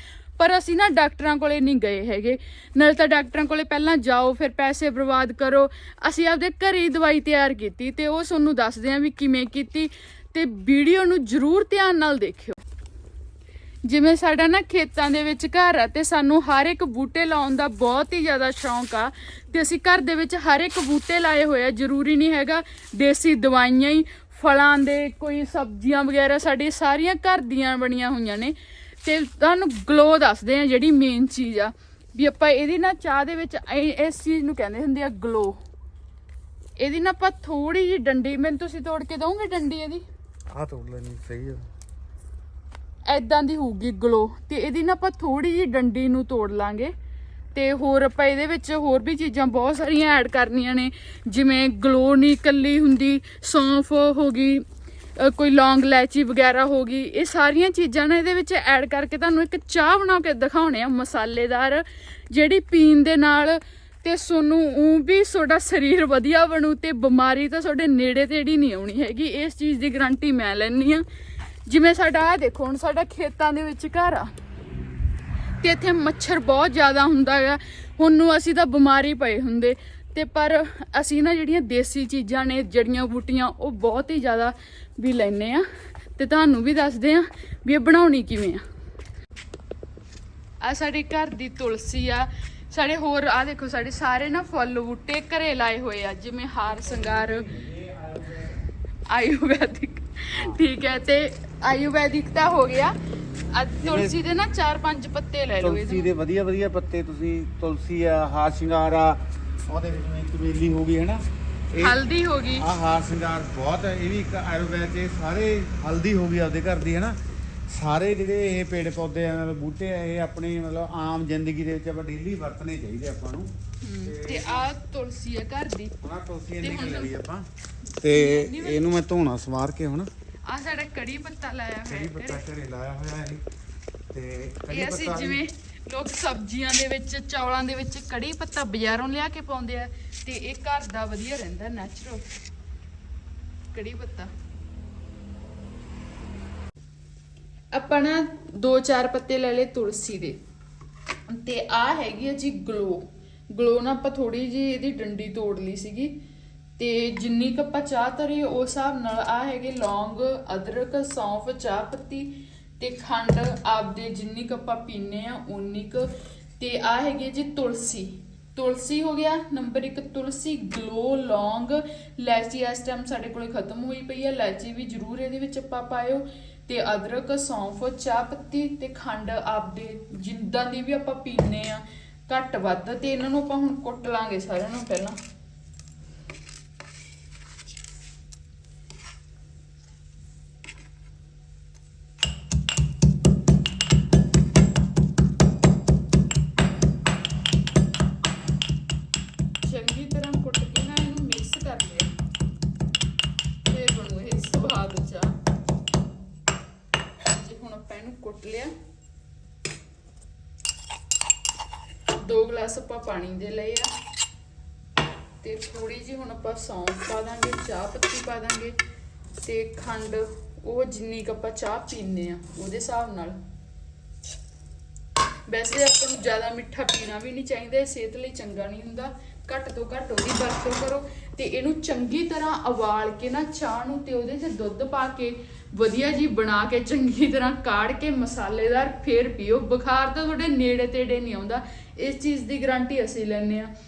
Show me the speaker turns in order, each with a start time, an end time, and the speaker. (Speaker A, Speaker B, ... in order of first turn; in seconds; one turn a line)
Speaker A: 0.4-12.6
Speaker A: 13.8-35.6
Speaker A: 36.8-40.0
Speaker B: 40.5-41.6
Speaker A: 43.1-46.9
Speaker A: 47.5-54.6
Speaker A: 55.2-71.0
Speaker A: 71.7-74.3
Speaker A: 75.6-88.6
Speaker A: 90.6-97.6
Speaker B: 96.9-98.6
Speaker A: 99.1-103.0
Speaker B: 100.3-100.6
Speaker A: 103.5-106.1
Speaker B: 103.8-104.2
Speaker B: 105.6-112.0
Speaker A: 111.8-112.7
Speaker B: 112.5-117.2
Speaker B: 117.7-123.5
Speaker A: 123.8-126.0
Speaker B: 124.0-124.7
Speaker B: 126.0-127.4
Speaker A: 126.6-127.2
Speaker A: 127.8-128.9
Speaker B: 128.0-130.1
Speaker A: 130.4-132.4
Speaker B: 131.9-133.4
Speaker B: 134.1-135.4
Speaker A: 134.7-142.3
Speaker A: 143.7-144.3
Speaker A: 147.7-150.4
Speaker A: 151.3-156.2
Speaker A: 156.8-185.2
Speaker A: 199.6-202.1
Speaker A: 203.6-205.3
Speaker A: 207.2-208.7
Speaker A: 212.2-213.9
Speaker A: 215.4-218.8
Speaker A: 219.4-223.4
Speaker A: 225.5-243.7